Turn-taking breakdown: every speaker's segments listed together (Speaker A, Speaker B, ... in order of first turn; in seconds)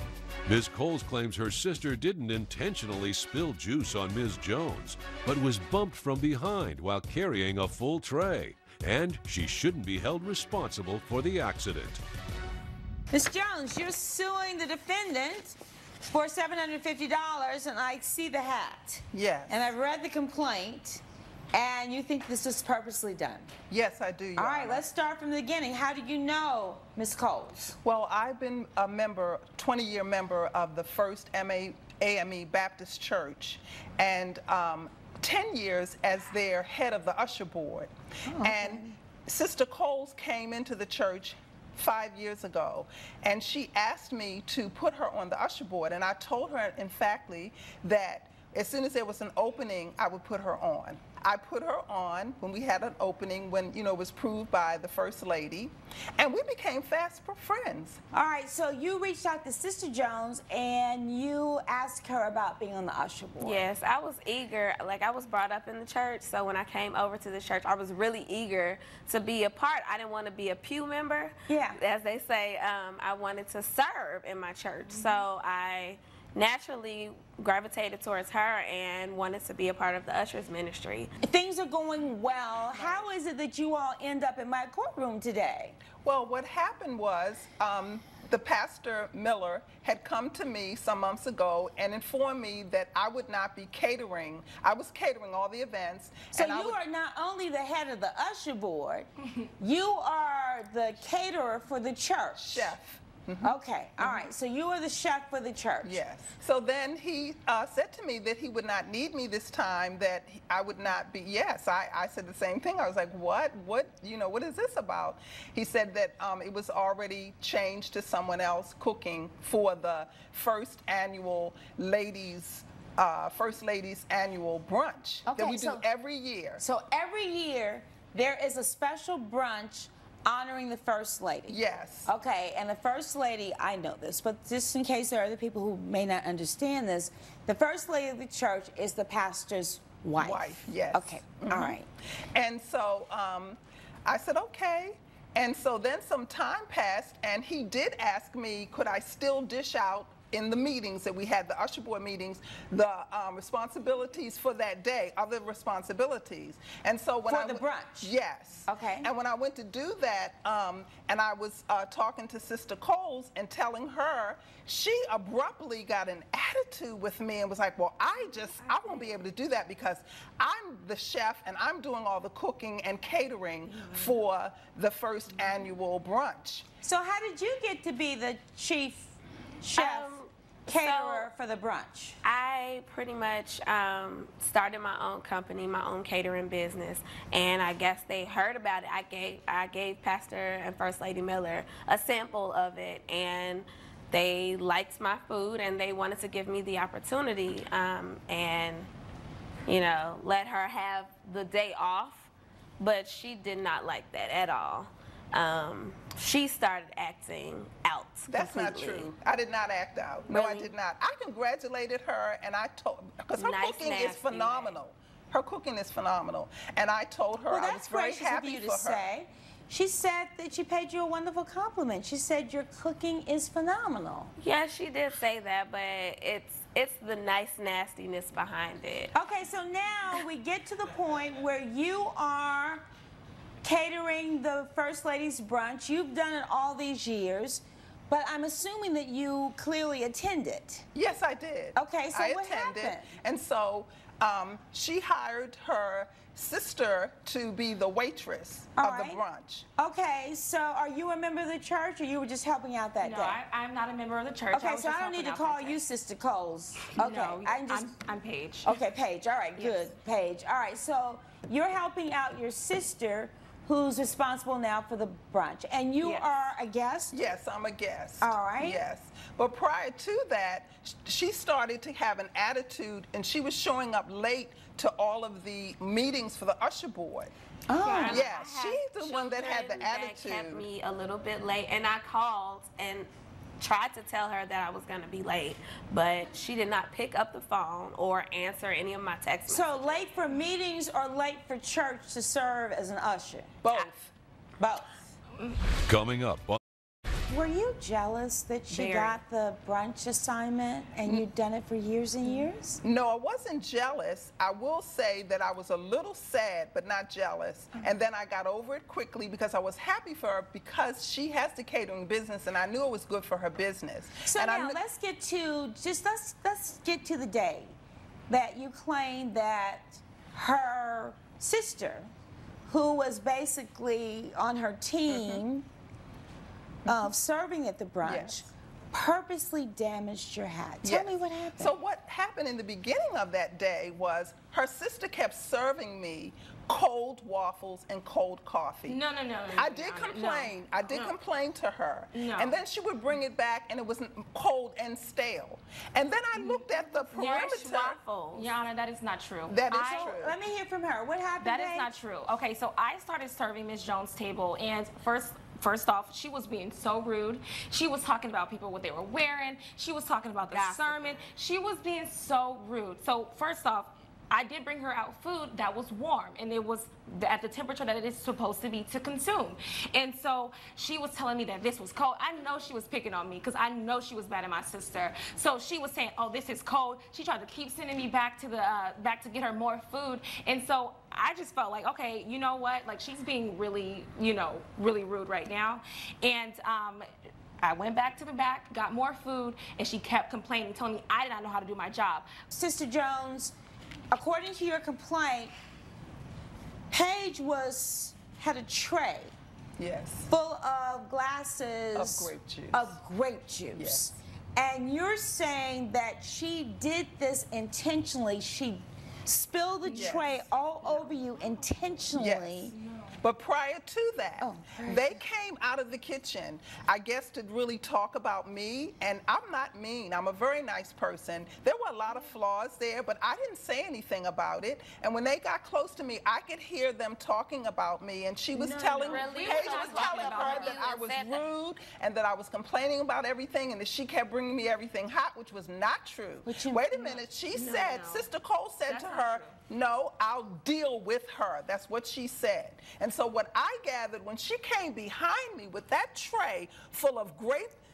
Speaker A: 0.5-12.0, 295.9-296.6
Speaker B: 13.1-23.5, 24.4-27.8, 38.3-39.0, 58.1-63.7, 71.5-71.8, 81.2-85.8, 96.3-102.8, 103.4-106.0, 125.2-125.8, 126.6-141.9, 157.2-158.1, 158.7-159.1, 176.8-182.2, 217.5-224.3, 229.1-232.8, 233.6-240.9, 241.7-243.1, 248.8-249.2, 249.8-253.4, 254.5-257.9, 258.6-267.1, 268.2-268.8, 277.7-278.3, 289.5-293.5, 294.6-294.9, 297.3-302.8, 314.2-317.7, 318.3-322.1, 322.7-325.7, 326.9-331.7, 349.8-351.9, 392.5-393.5, 394.1-395.5, 396.9-399.3, 400.3-412.7, 414.4-415.2, 436.4-436.9
Speaker C: 19.1-19.7, 23.7-24.9, 27.8-58.0, 82.7-83.0, 86.0-96.8, 102.3-104.3, 105.8-126.6, 131.5-132.1, 140.2-141.8, 142.3-176.6, 208.3-219.0, 240.9-249.7, 267.1-277.3, 278.1-280.7, 293.6-294.1, 302.8-314.8, 325.1-325.4, 326.8-327.1, 328.0-328.4, 330.8-339.0, 339.6-348.0, 349.5-350.4, 399.8-400.3, 401.9-403.0, 403.8-404.1, 409.9-410.3, 412.1-447.8
Speaker D: 63.4-81.1, 168.2-169.3, 179.7-181.3, 182.2-198.9, 199.7-209.1, 210.3-210.7, 213.4-214.8, 224.4-229.1, 277.8-290.1, 298.7-299.1, 347.1-348.5, 360.5-361.3, 429.1-431.5
Speaker E: 253.0-255.8, 256.9-258.8, 259.6-259.9, 338.9-341.1, 342.1-342.6, 346.3-347.5, 348.3-350.2, 351.4-387.0, 387.6-392.3, 409.8-411.8, 412.7-413.2, 428.5-430.8, 436.9-438.3, 438.8-439.6